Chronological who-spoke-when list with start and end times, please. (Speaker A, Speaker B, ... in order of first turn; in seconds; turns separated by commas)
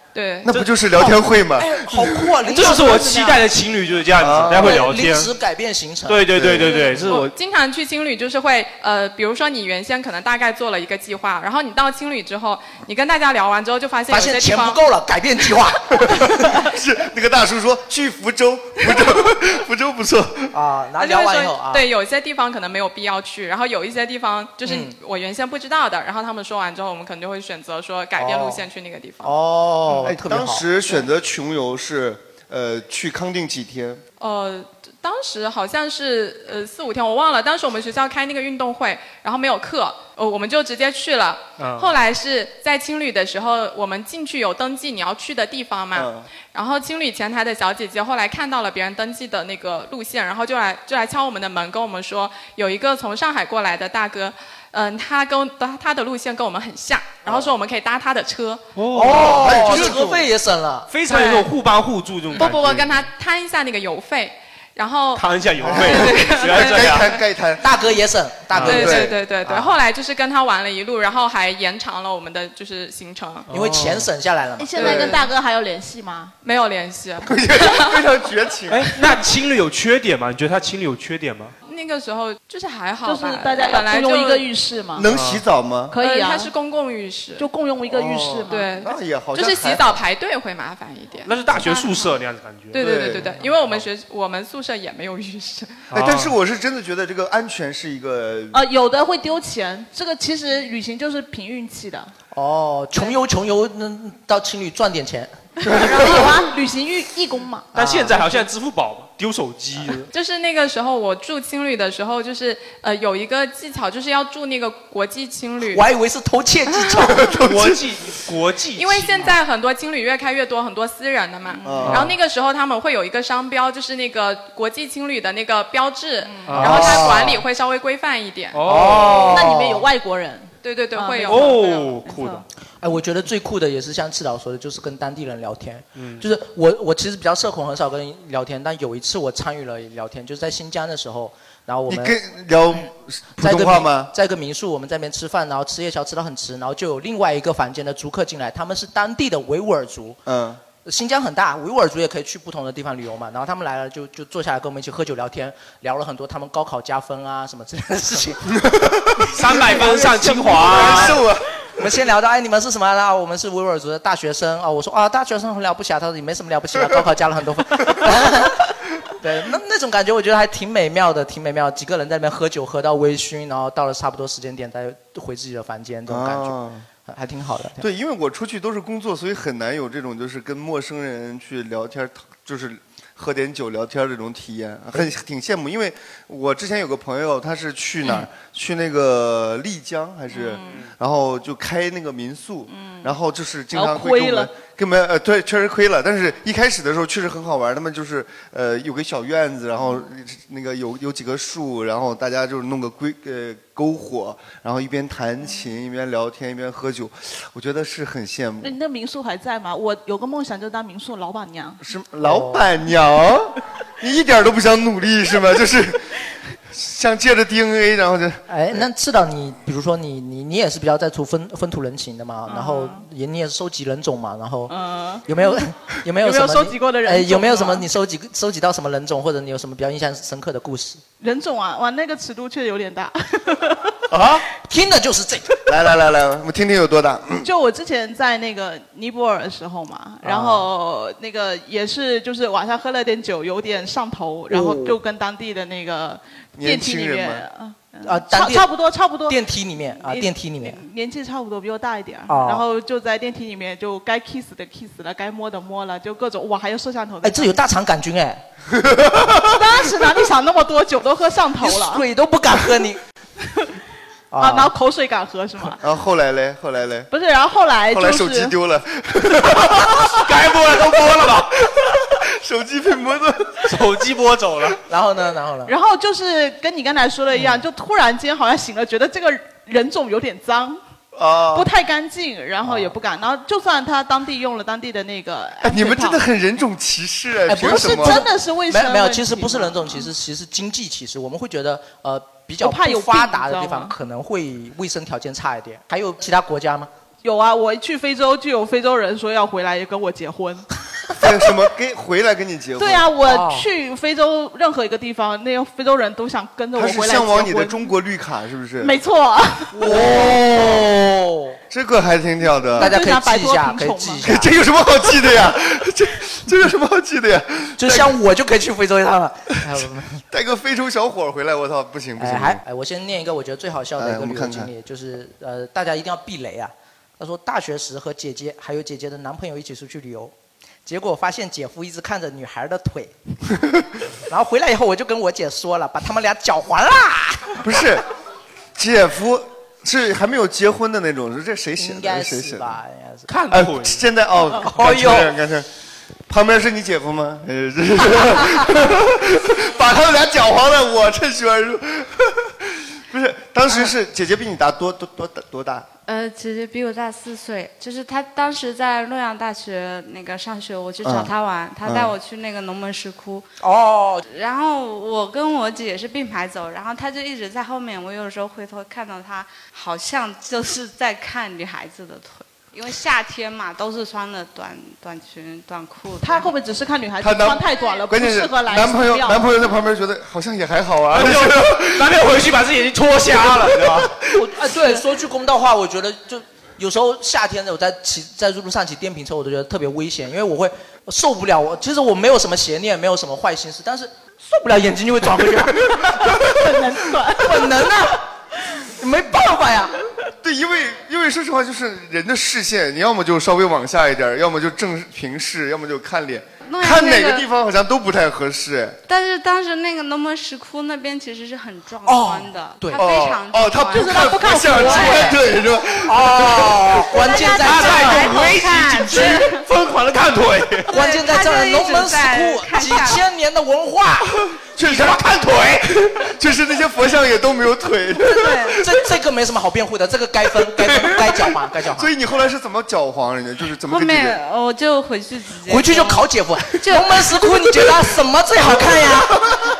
Speaker A: 0.1-0.5, Speaker B: 0.4-2.3, Speaker C: 1.0-3.4, Speaker D: 2.5-5.3, Speaker B: 4.2-4.8, Speaker C: 4.5-6.2, Speaker D: 6.1-7.3, Speaker B: 6.3-6.9, Speaker A: 6.6-14.8, Speaker C: 14.1-16.6, Speaker B: 16.0-20.5, Speaker C: 20.5-21.9, Speaker A: 21.0-29.3, Speaker C: 24.6-24.9, Speaker C: 28.2-28.6, Speaker C: 29.2-30.7, Speaker B: 29.9-34.0, Speaker A: 34.2-58.6, Speaker D: 41.6-41.9, Speaker B: 45.9-46.3, Speaker B: 57.2-57.5, Speaker D: 58.8-60.1, Speaker C: 58.9-60.9, Speaker B: 59.1-60.2, Speaker D: 60.9-63.1, Speaker A: 61.1-61.5, Speaker A: 62.3-67.1, Speaker B: 62.4-62.8, Speaker D: 65.1-67.1, Speaker B: 65.6-67.8, Speaker C: 67.6-69.1, Speaker D: 68.5-68.9, Speaker B: 68.6-69.2, Speaker A: 68.7-73.5, Speaker D: 73.5-74.1, Speaker C: 73.5-75.1, Speaker E: 74.6-76.3, Speaker B: 74.8-75.2, Speaker A: 76.4-78.0, Speaker B: 77.2-78.9, Speaker D: 78.7-81.5, Speaker A: 81.7-84.5, Speaker E: 83.0-85.1, Speaker B: 84.9-86.0, Speaker D: 85.1-85.4, Speaker E: 85.9-86.5, Speaker A: 86.0-87.5, Speaker E: 87.4-88.7, Speaker B: 87.8-90.0, Speaker A: 88.5-91.8, Speaker D: 91.2-92.8, Speaker A: 92.7-95.9, Speaker B: 92.7-93.8, Speaker D: 95.9-96.3, Speaker B: 95.9-98.6, Speaker E: 98.5-102.1, Speaker C: 102.3-105.3, Speaker E: 105.6-107.7, Speaker B: 105.6-106.5, Speaker D: 107.7-110.1, Speaker C: 107.7-108.2, Speaker A: 110.1-115.8, Speaker C: 115.7-117.3, Speaker B: 117.0-117.8, Speaker D: 117.4-119.3, Speaker A: 118.8-128.6, Speaker E: 121.5-121.9, Speaker B: 121.6-122.0, Speaker D: 121.8-122.1, Speaker E: 126.2-126.7, Speaker D: 126.5-127.3, Speaker C: 126.5-127.4, Speaker D: 128.5-129.5, Speaker C: 128.6-129.8, Speaker E: 129.3-132.4, Speaker A: 130.6-131.9, Speaker D: 131.3-132.4, Speaker C: 132.8-142.2, Speaker D: 135.9-136.2, Speaker B: 141.9-144.1, Speaker C: 143.4-150.2, Speaker B: 150.2-150.6, Speaker C: 150.8-158.5, Speaker B: 158.5-161.4, Speaker D: 159.3-161.2, Speaker C: 159.5-161.1, Speaker C: 161.8-177.8, Speaker B: 176.1-176.9, Speaker B: 177.8-208.8, Speaker E: 190.3-190.8, Speaker E: 192.7-193.1, Speaker E: 193.7-194.5, Speaker E: 208.6-211.8, Speaker B: 211.8-216.1, Speaker C: 212.2-212.7, Speaker B: 216.7-218.8, Speaker C: 218.5-231.0, Speaker E: 222.5-223.1, Speaker E: 224.7-225.6, Speaker E: 226.2-227.9, Speaker E: 231.2-234.0, Speaker B: 234.1-234.4, Speaker C: 234.6-235.6, Speaker B: 235.7-237.5, Speaker E: 237.4-257.6, Speaker C: 240.2-240.7, Speaker C: 244.5-245.0, Speaker B: 246.6-247.5, Speaker C: 248.0-248.7, Speaker C: 249.3-250.8, Speaker C: 252.3-252.6, Speaker C: 257.2-258.4, Speaker B: 258.7-259.7, Speaker E: 259.5-262.0, Speaker C: 261.6-263.0, Speaker E: 263.4-263.7, Speaker C: 264.3-264.7, Speaker E: 264.4-265.8, Speaker B: 265.8-267.1, Speaker E: 267.1-268.5, Speaker B: 267.9-270.3, Speaker D: 270.0-271.7, Speaker B: 271.2-273.8, Speaker D: 273.6-274.8, Speaker C: 274.9-275.7, Speaker E: 275.7-280.8, Speaker C: 277.3-277.6, Speaker B: 281.1-281.7, Speaker E: 281.5-286.2, Speaker C: 282.6-282.9, Speaker B: 285.6-288.2, Speaker C: 287.5-296.9, Speaker E: 287.6-290.1, Speaker E: 292.6-293.9, Speaker E: 297.2-300.6, Speaker B: 301.2-303.1, Speaker E: 302.8-307.9, Speaker C: 303.2-303.6, Speaker B: 306.7-308.9, Speaker E: 308.8-309.8, Speaker C: 309.7-311.6, Speaker B: 309.8-310.9, Speaker B: 311.7-312.9, Speaker E: 312.7-314.3, Speaker C: 312.8-314.5, Speaker B: 314.2-318.1, Speaker C: 317.8-320.2, Speaker B: 320.3-322.6, Speaker C: 322.2-330.3, Speaker B: 324.0-324.7, Speaker C: 330.9-333.1, Speaker C: 334.3-337.6, Speaker B: 337.6-338.0, Speaker B: 338.8-342.8, Speaker C: 341.8-343.3, Speaker D: 343.3-344.0, Speaker B: 343.5-345.7, Speaker C: 344.6-345.3, Speaker B: 346.3-355.9, Speaker F: 356.1-363.5, Speaker B: 361.0-361.3, Speaker B: 361.8-362.1, Speaker C: 363.6-364.2, Speaker F: 364.2-376.5, Speaker E: 376.2-379.5, Speaker B: 377.2-382.2, Speaker D: 381.1-384.1, Speaker B: 383.5-384.2, Speaker C: 384.3-396.5, Speaker E: 396.4-397.8, Speaker C: 397.3-398.2, Speaker C: 399.0-400.0, Speaker B: 400.4-409.0, Speaker F: 406.6-407.5, Speaker F: 409.1-414.3, Speaker C: 412.0-413.1, Speaker B: 413.0-416.9, Speaker E: 413.9-415.4, Speaker C: 414.7-415.4, Speaker C: 416.1-418.6, Speaker D: 416.3-420.9, Speaker F: 417.1-419.6, Speaker F: 420.9-423.2, Speaker C: 420.9-424.3, Speaker B: 424.5-425.2, Speaker D: 424.8-426.2, Speaker B: 426.1-428.9, Speaker F: 428.3-428.8, Speaker C: 428.6-432.1, Speaker B: 430.7-434.4, Speaker F: 433.9-437.8, Speaker C: 435.7-439.4